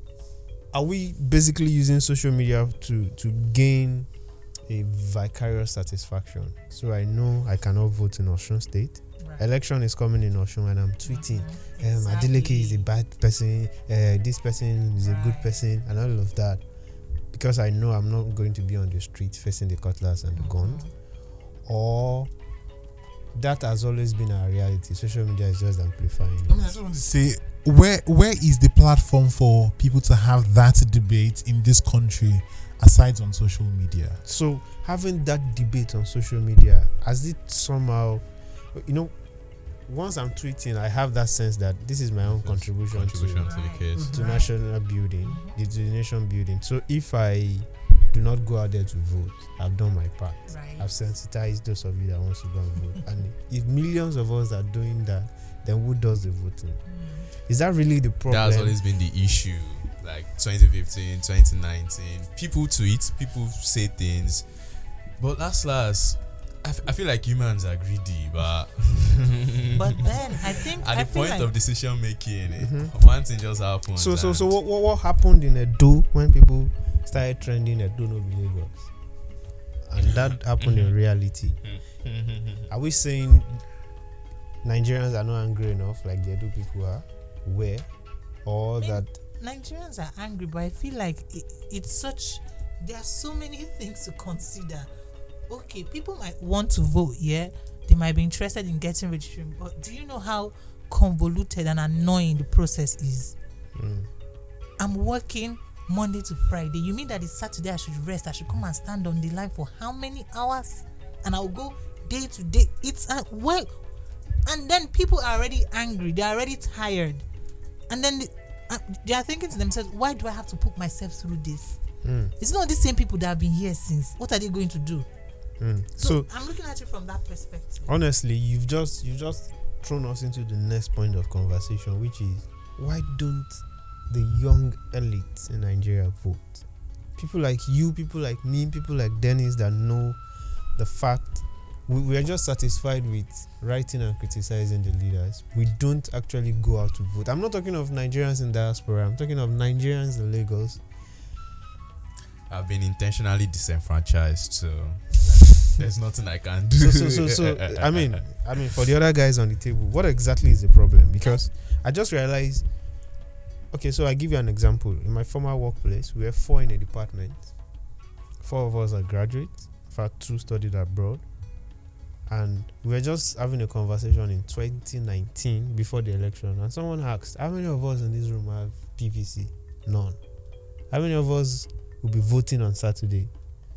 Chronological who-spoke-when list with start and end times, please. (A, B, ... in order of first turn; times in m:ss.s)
0:00.7-0:16.6 A
0:11.0-0:12.8 B
0:15.0-0:15.5 B
0:17.3-0:20.9 A
0:20.3-0:20.9 B
0:21.6-0:22.3 A
0:23.3-0:26.7 A
0:26.5-0:34.2 C
0:34.2-0:39.3 A
0:39.8-0:56.8 A
0:42.2-0:44.1 D
0:43.4-0:44.5 B
0:44.0-0:44.4 C
0:45.2-0:45.5 B
0:50.5-0:50.9 B
0:56.9-0:57.3 B
0:57.4-0:58.8 A
0:58.3-1:14.5 D
1:09.7-1:11.5 B
1:12.6-1:12.9 A
1:13.9-1:18.9 A
1:19.8-1:21.6 A
1:20.6-1:20.9 D
1:21.6-1:22.7 D
1:22.7-1:23.6 A
1:24.6-1:27.9 A
1:28.4-1:29.1 A
1:28.8-1:34.9 B
1:35.5-1:43.3 B
1:43.7-1:44.1 A
1:44.8-1:53.7 B
1:54.4-1:57.2 B
1:57.9-2:01.8 B
2:02.0-2:02.3 A
2:02.4-2:05.1 B
2:05.6-2:06.3 A
2:06.0-2:07.9 B
2:07.9-2:16.6 A
2:17.2-2:20.2 A
2:20.8-2:30.8 A
2:32.5-2:38.2 D
2:36.8-2:42.7 A
2:43.7-2:47.5 A
2:48.4-2:51.2 A
2:52.3-3:00.2 A
3:00.9-3:03.3 A